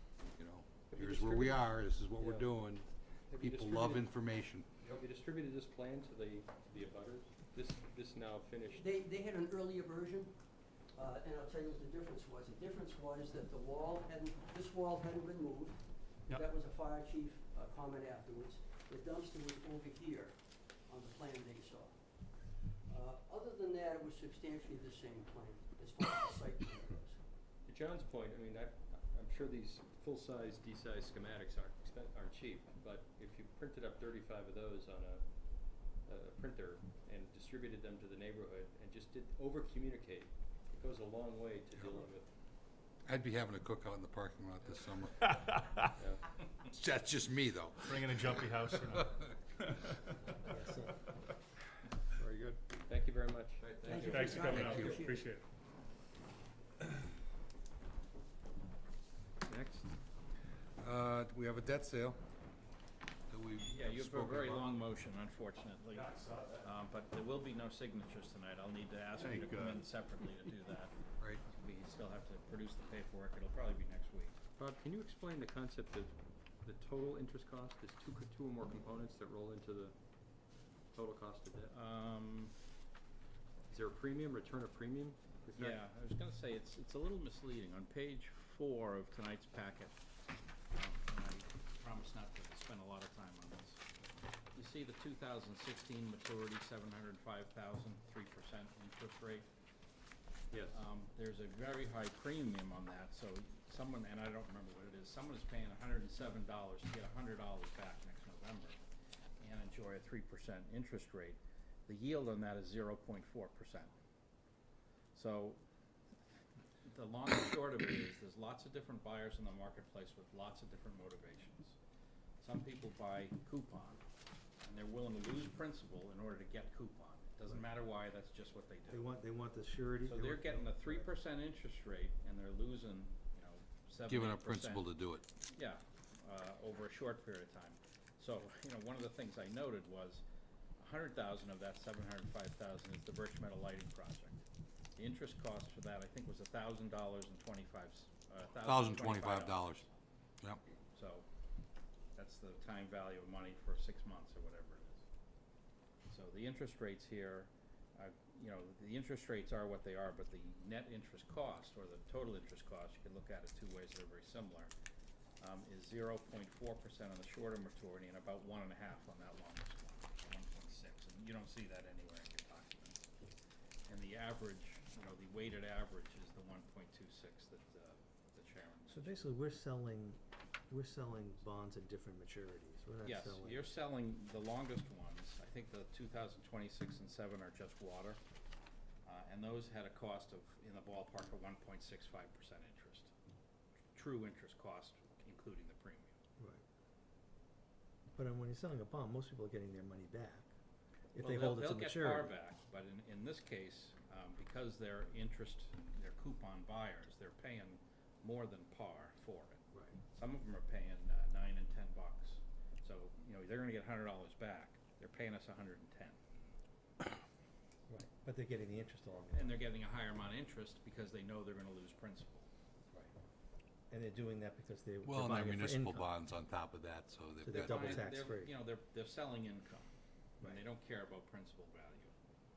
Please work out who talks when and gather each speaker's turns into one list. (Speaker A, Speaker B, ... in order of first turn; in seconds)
Speaker A: 0.2-4.7, 41.8-42.1, 43.0-45.3, 46.7-48.4, 54.6-55.0, 60.8-62.2, 63.3-64.8, 69.3-69.8, 134.1-135.2, 148.6-149.9, 225.0-228.1
Speaker B: 0.9-2.5, 3.3-4.1, 4.8-8.8, 27.6-42.3, 46.0-46.3, 52.8-54.9, 59.4-60.0, 74.5-80.0, 80.9-81.7, 83.7-85.8, 100.5-100.8
Speaker C: 8.7-27.2, 53.8-55.2
Speaker D: 45.3-45.8, 47.8-50.0, 54.0-55.4
Speaker E: 50.4-51.1, 128.9-131.2, 178.9-183.7, 196.4-196.6, 198.2-200.5, 201.1-202.3, 217.9-219.6, 223.9-226.1, 227.4-228.6
Speaker F: 63.7-74.4, 81.7-82.5, 85.5-89.9, 90.7-93.8, 94.5-99.5, 100.7-108.8, 109.4-113.9, 115.1-115.6, 116.8-121.8, 122.4-124.0, 124.6-129.0, 130.1-134.9, 135.4-140.2, 140.8-144.4, 145.0-149.9, 150.9-151.2, 152.1-155.0, 156.1-164.7, 165.4-173.1, 173.9-179.3, 183.0-188.2, 189.0-193.1, 193.9-196.1, 201.2-216.2, 219.3-222.5, 227.6-229.9, 230.4-232.1